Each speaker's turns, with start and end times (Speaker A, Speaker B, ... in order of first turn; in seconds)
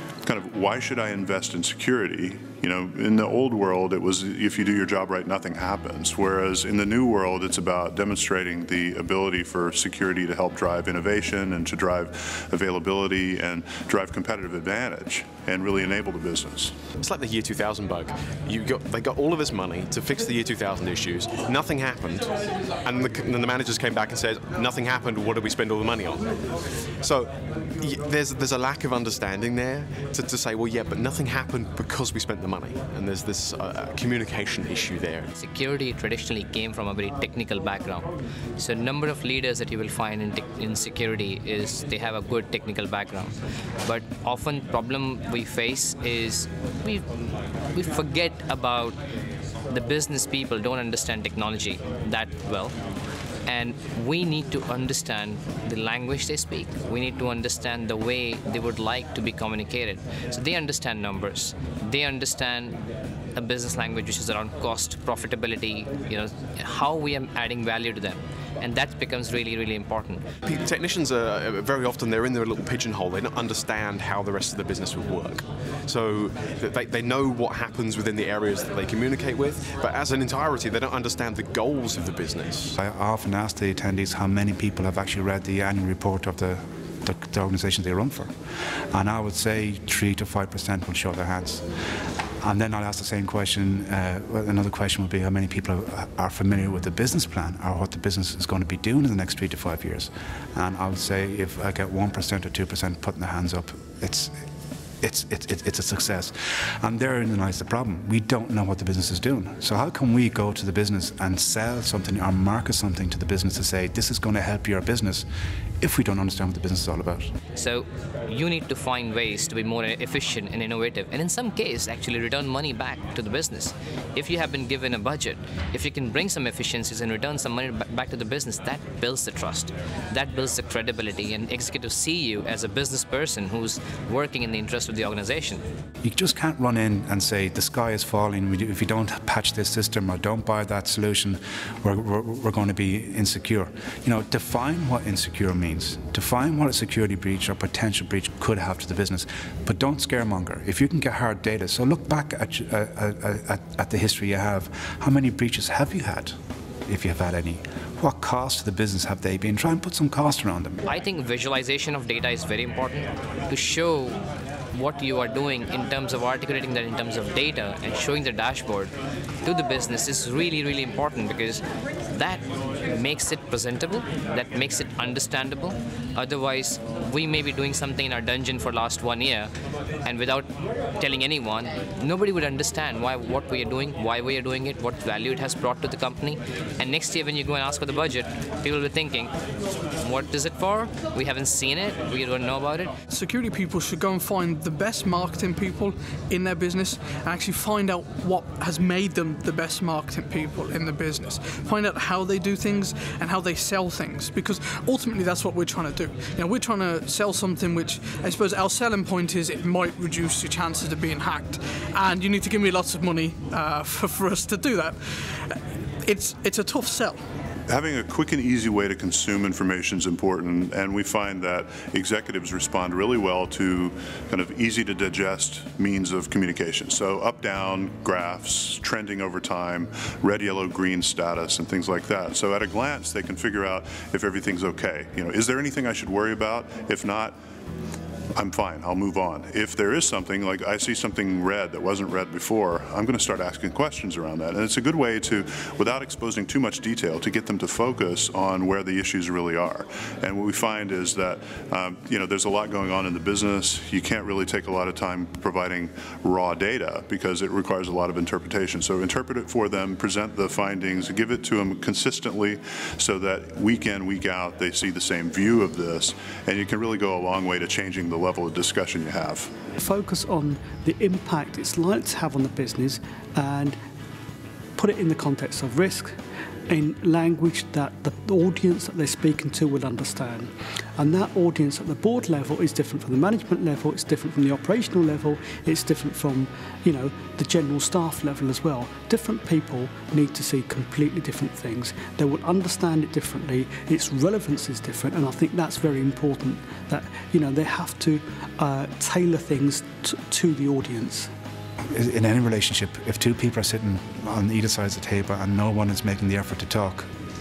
Speaker A: 0.2-16.8, 217.7-237.3, 238.4-269.5
Speaker B: 17.0-35.3, 70.5-82.8
Speaker C: 35.4-47.1, 47.7-49.0, 49.7-52.8, 53.5-62.8, 63.4-70.2, 117.5-135.6, 160.9-164.2, 164.7-168.9, 169.4-179.5, 180.0-189.3, 190.0-192.9
Speaker D: 82.8-88.3, 88.9-91.7, 92.4-104.4, 105.0-115.3, 115.8-117.3, 136.0-160.8, 301.9-307.1
Speaker E: 193.1-217.2
Speaker F: 269.8-273.8, 274.8-276.2, 276.7-301.3